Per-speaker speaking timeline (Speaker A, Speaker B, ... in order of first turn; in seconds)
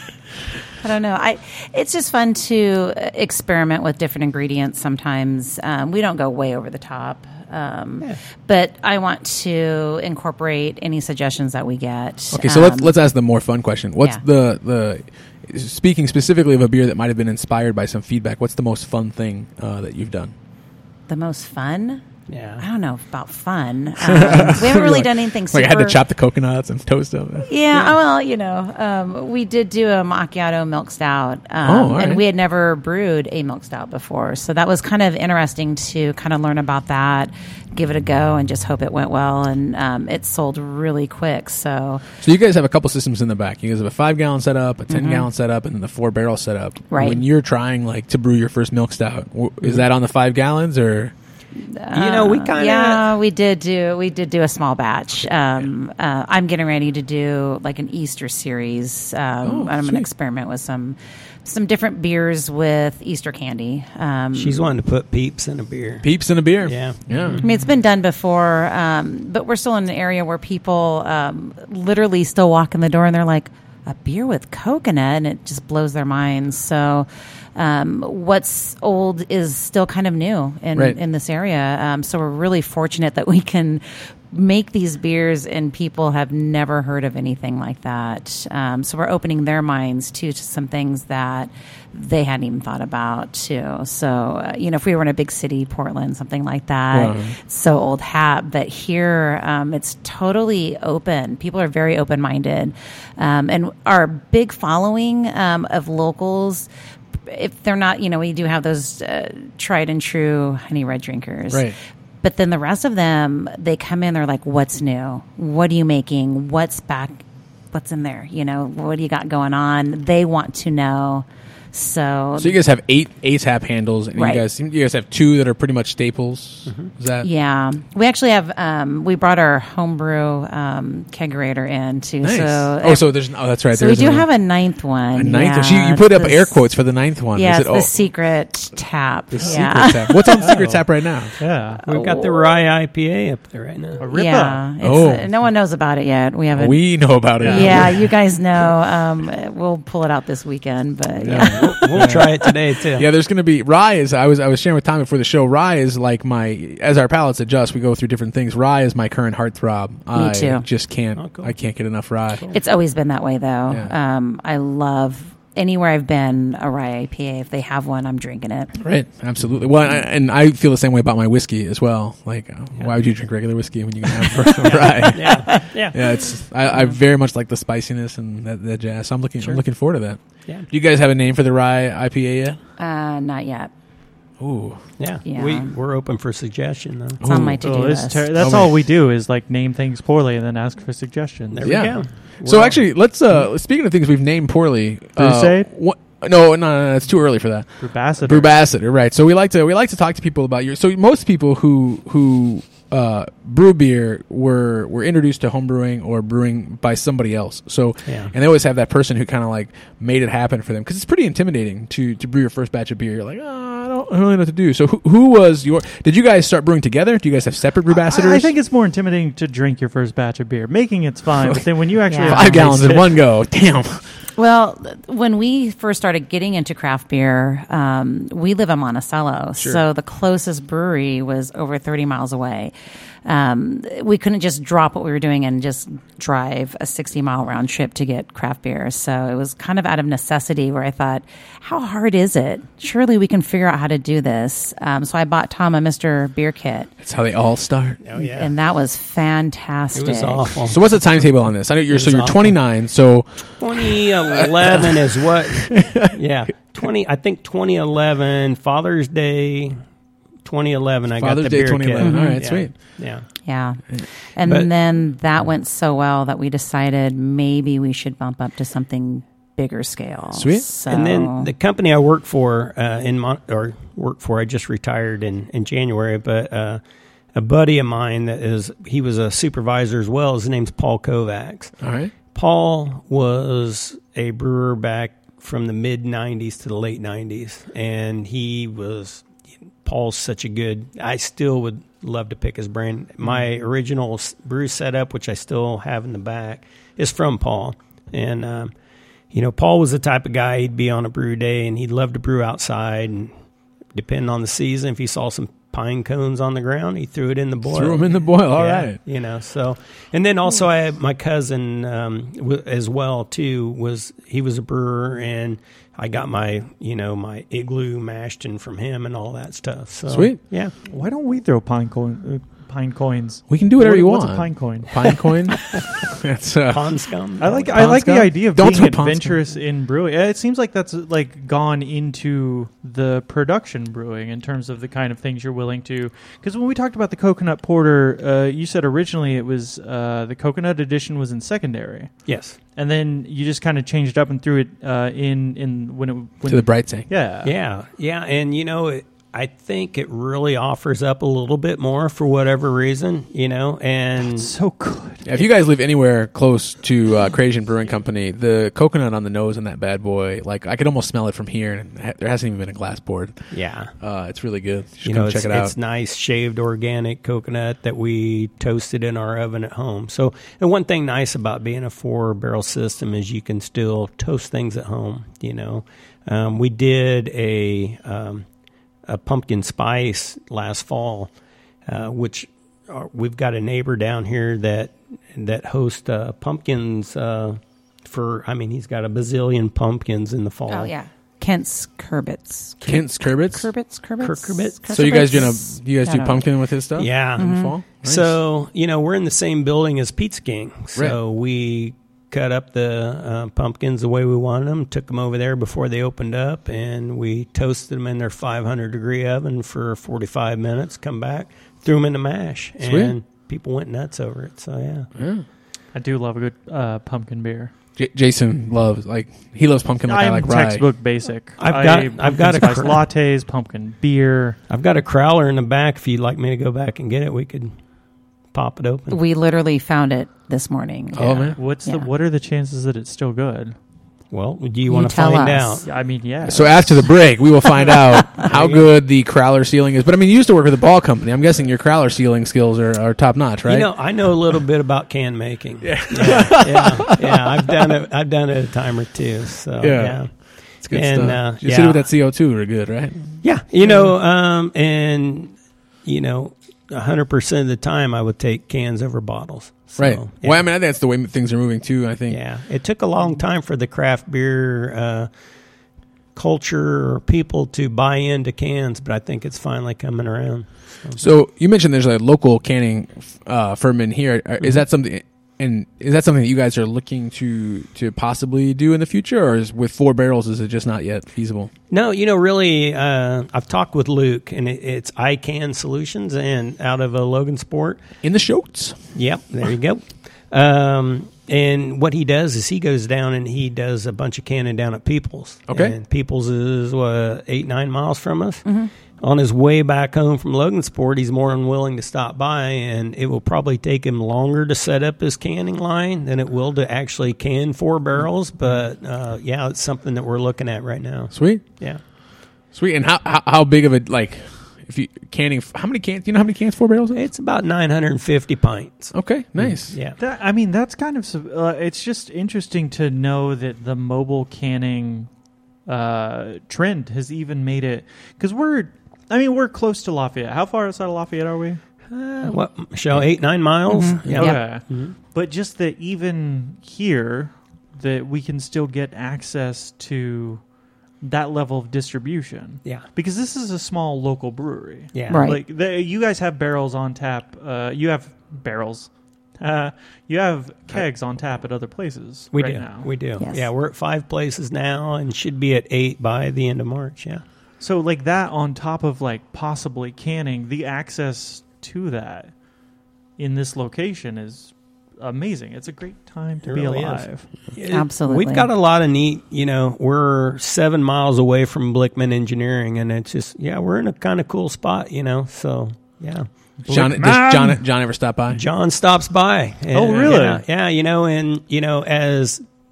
Speaker A: 0.8-12.9, 21.1-22.0, 22.6-26.0, 27.4-42.0, 44.9-45.3, 46.9-47.2, 51.5-64.7, 67.4-106.7, 107.2-122.5, 124.1-124.4, 127.2-133.1, 133.7-136.6, 137.3-140.4, 141.8-142.5, 144.1-146.8, 147.3-152.1, 160.1-160.6, 162.5-168.7, 182.8-183.7, 185.2-185.7, 187.2-188.4, 222.1-222.5, 224.3-232.7, 233.2-246.9, 248.2-250.5, 262.0-262.4, 263.4-271.5, 390.7-396.4, 397.4-397.7, 429.1-432.1, 434.9-435.8, 533.9-534.6, 545.3-545.6, 553.4-553.7, 567.9-568.7
Speaker B: 12.3-20.3, 24.0-27.5, 31.6-32.2, 42.2-51.1, 59.4-60.1, 66.0-67.4, 96.9-97.3, 122.4-127.3, 132.2-134.3, 135.1-137.9, 139.3-141.3, 144.8-145.3, 146.5-148.1, 151.2-162.4, 168.8-182.6, 184.4-184.8, 187.2-187.6, 188.4-188.7, 191.6-218.5, 221.4-221.7, 222.2-224.0, 229.6-229.8, 247.0-248.0, 250.7-256.1, 261.2-262.7, 270.3-270.7, 281.8-282.1, 307.7-309.0, 320.1-320.4, 323.5-326.9, 327.7-329.4, 346.5-347.1, 355.2-363.4, 364.0-365.7, 392.8-393.7, 394.9-398.4, 412.8-413.1, 415.1-415.4, 418.0-420.8, 431.1-431.6, 436.4-443.9, 445.8-448.0, 449.8-450.3, 450.8-453.4, 460.0-462.4, 471.2-481.7, 488.2-489.0, 495.7-495.9, 511.3-511.6, 512.7-517.2, 519.1-519.9, 576.9-578.6
Speaker C: 22.3-22.6, 51.9-53.1, 64.3-66.1, 66.6-67.4, 141.8-144.0, 151.4-153.1, 161.2-161.5, 174.6-176.0, 185.0-187.2, 191.5-192.8, 208.1-208.3, 248.0-248.5, 249.9-250.8, 251.9-252.5, 253.6-259.8, 260.4-263.2, 270.9-276.8, 277.3-281.7, 282.3-289.2, 289.8-298.7, 299.3-303.3, 303.9-320.7, 326.7-327.8, 342.2-342.6, 347.4-354.5, 363.5-363.9, 365.0-378.4, 379.1-381.3, 381.9-390.9, 394.2-395.2, 397.0-415.1, 421.6-423.0, 424.7-427.7, 428.5-429.2, 434.3-435.9, 438.4-438.9, 443.6-452.0, 453.4-460.6, 462.3-465.3, 466.3-471.2, 481.9-488.0, 489.1-512.0, 517.1-520.2, 532.1-535.1, 545.1-545.5, 552.5-557.4, 566.6-576.5, 578.5-582.6
Speaker D: 140.4-140.8, 141.4-141.8, 144.0-144.6, 147.4-147.8, 187.6-191.7, 195.2-195.7, 197.8-198.5, 217.9-223.1, 320.8-325.6, 327.4-342.2, 342.8-347.5, 354.3-355.2, 415.9-417.7, 420.1-424.6, 431.6-433.8, 435.8-437.1, 520.2-525.3, 525.9-531.8, 534.3-540.6, 541.2-553.1, 557.8-562.5, 563.4-567.5, 576.9-577.8, 579.9-580.6